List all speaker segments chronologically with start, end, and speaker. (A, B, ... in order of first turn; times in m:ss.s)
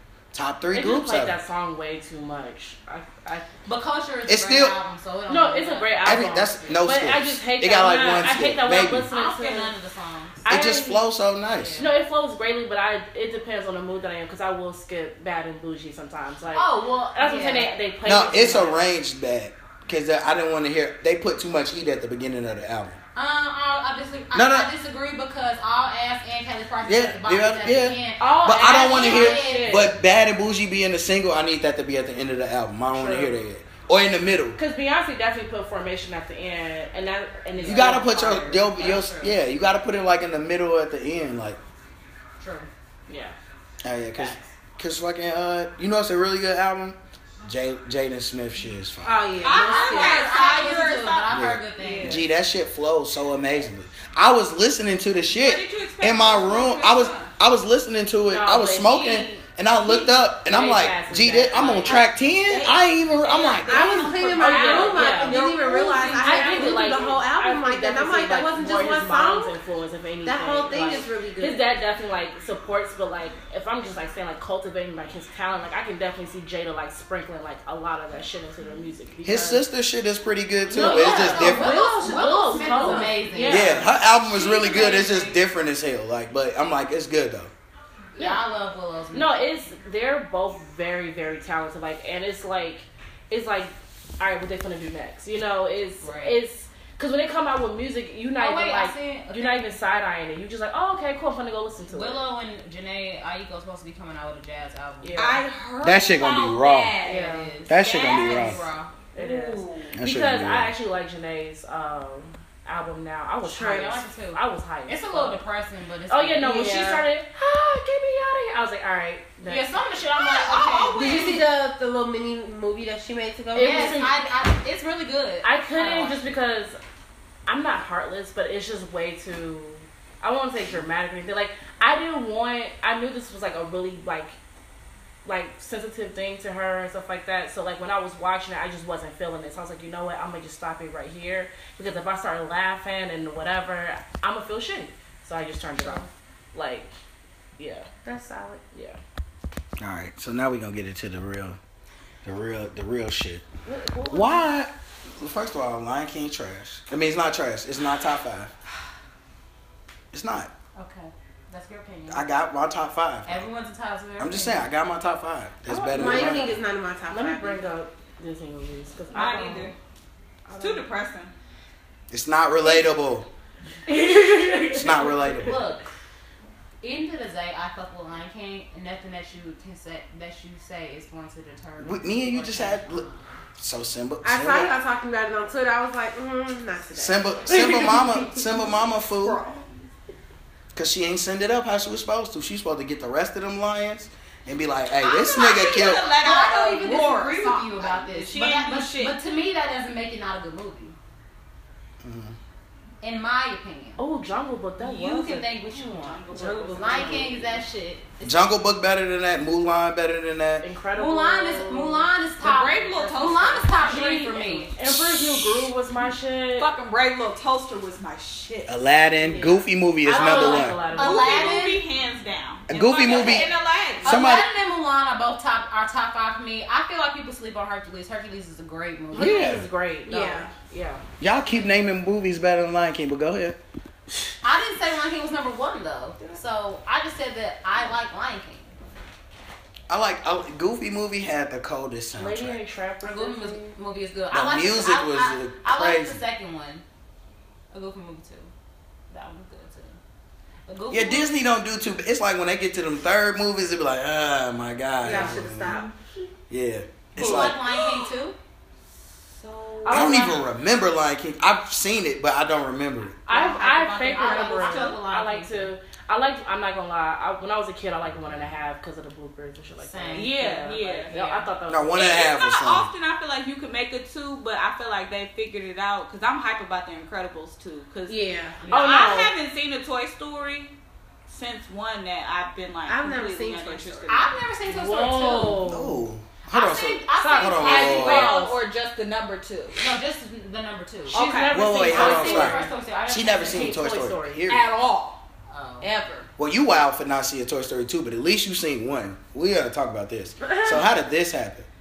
0:00.3-0:01.4 A
0:00.7-0:03.5 B
0:03.7-0:06.8 C
0:04.3-0:04.8 A
0:05.3-0:09.7 B
0:06.0-0:09.1 A
0:09.1-0:10.5 C
0:10.4-0:11.1 B
0:10.4-0:11.9 A
0:11.5-0:11.9 C
0:11.8-0:18.8 B
0:16.5-0:17.7 C
0:18.0-0:23.0 A
0:23.2-0:29.9 C
0:24.3-0:24.7 A
0:26.8-0:34.6 A
0:28.2-0:29.9 B
0:32.9-0:33.4 B
0:34.6-0:39.0 B
0:37.6-0:39.4 C
0:37.6-0:41.6 A
0:42.4-0:42.7 C
0:43.1-0:43.4 B
0:43.8-0:49.4 A
0:44.2-0:44.5 B
0:49.0-0:50.4 D
0:49.4-0:52.2 E
0:49.5-0:52.2 C
0:51.3-1:04.0 A
0:55.3-0:57.3 E
0:58.3-1:02.0 B
1:02.5-1:07.2 E
1:03.6-1:09.6 D
1:04.4-1:05.4 B
1:06.2-1:19.6 B
1:10.2-1:11.6 D
1:19.2-1:21.8 A
1:20.7-1:24.0 B
1:20.7-1:23.9 C
1:23.4-1:27.5 A
1:24.5-1:25.3 B
1:24.8-1:25.1 C
1:28.2-1:29.5 C
1:29.1-1:42.2 B
1:36.0-1:36.4 C
1:38.4-1:39.7 C
1:41.9-1:45.3 C
1:45.0-1:45.4 B
1:45.2-1:48.6 E
1:45.8-1:47.0 A
1:47.0-1:48.9 C
1:47.1-1:47.5 B
1:47.7-1:48.6 A
1:49.1-1:55.4 B
1:49.2-1:49.9 E
1:49.9-1:50.7 A
1:53.4-1:57.0 C
1:56.1-1:59.8 B
1:59.4-2:01.4 C
2:00.1-2:01.4 E
2:01.0-2:04.0 D
2:03.6-2:04.2 B
2:03.6-2:06.4 C
2:05.4-2:06.8 B
2:07.5-2:14.4 B
2:15.2-2:26.9 B
2:27.6-2:27.9 B
2:28.0-2:28.6 D
2:28.7-2:29.0 B
2:29.8-2:31.6 A
2:32.2-2:33.4 A
2:33.7-2:34.5 B
2:34.1-2:38.5 A
2:40.1-2:40.5 A
2:40.8-2:42.3 C
2:42.1-2:43.5 A
2:43.3-2:44.7 C
2:44.2-2:46.5 A
2:45.7-2:49.7 B
2:45.9-2:47.7 D
2:49.1-2:49.7 E
2:50.5-2:50.8 B
2:50.5-2:51.3 E
2:52.1-2:53.3 A
2:53.9-2:55.7 B
2:54.8-2:55.6 A
2:55.4-2:55.9 C
2:56.8-3:03.3 C
3:01.8-3:03.1 A
3:03.6-3:04.7 A
3:04.2-3:07.8 D
3:07.0-3:09.4 A
3:07.5-3:08.4 B
3:09.2-3:09.6 E
3:10.7-3:16.2 A
3:15.0-3:19.2 E
3:16.2-3:21.0 C
3:22.0-3:22.4 A
3:23.0-3:24.0 C
3:24.0-3:25.5 B
3:24.8-3:28.5 C
3:25.0-3:27.6 E
3:28.2-3:30.7 A
3:30.6-3:32.1 B
3:31.0-3:34.8 C
3:32.4-3:34.7 E
3:33.8-3:34.2 B
3:34.7-3:36.7 B
3:34.8-3:35.7 A
3:36.6-3:38.8 E
3:38.7-3:40.8 A
3:39.2-3:41.5 B
3:40.2-3:41.8 C
3:40.3-3:44.2 E
3:42.7-3:43.5 A
3:43.1-3:43.5 C
3:44.0-3:49.5 C
3:44.0-3:44.5 A
3:49.1-3:51.0 B
3:49.1-3:49.6 A
3:50.1-3:50.5 D
3:51.2-3:53.6 A
3:54.4-3:58.7 C
3:59.9-4:02.6 A
4:02.2-4:03.8 B
4:03.0-4:06.8 C
4:04.3-4:06.2 A
4:07.7-4:08.5 C
4:09.1-4:10.0 C
4:10.7-4:11.3 C
4:10.9-4:15.8 A
4:15.0-4:15.9 D
4:15.1-4:15.9 E
4:16.5-4:17.6 A
4:17.2-4:18.4 C
4:17.2-4:18.2 E
4:19.2-4:20.1 E
4:19.8-4:20.4 B
4:19.9-4:20.4 C
4:19.9-4:23.2 A
4:23.3-4:32.0 B
4:23.3-4:25.7 C
4:23.3-4:25.0 E
4:28.2-4:28.5 C
4:29.8-4:30.4 C
4:30.1-4:31.3 E
4:31.1-4:31.5 C
4:31.7-4:32.9 A
4:31.9-4:40.7 E
4:38.1-4:38.6 D
4:38.6-4:39.2 C
4:38.7-4:39.3 B
4:41.3-4:44.3 E
4:42.9-4:44.2 D
4:44.1-4:45.7 C
4:44.7-4:46.0 B
4:45.6-4:48.3 A
4:46.5-4:48.5 C
4:47.2-4:48.5 B
4:47.7-4:49.9 E
4:49.8-4:51.2 C
4:51.1-4:51.6 E
4:51.1-4:52.7 B
4:51.5-4:54.6 A
4:51.8-4:53.8 C
4:53.5-4:54.4 B
4:54.5-4:55.2 E
4:55.5-4:55.9 C
4:55.8-4:56.3 E
4:56.4-5:01.7 A
5:00.4-5:00.8 D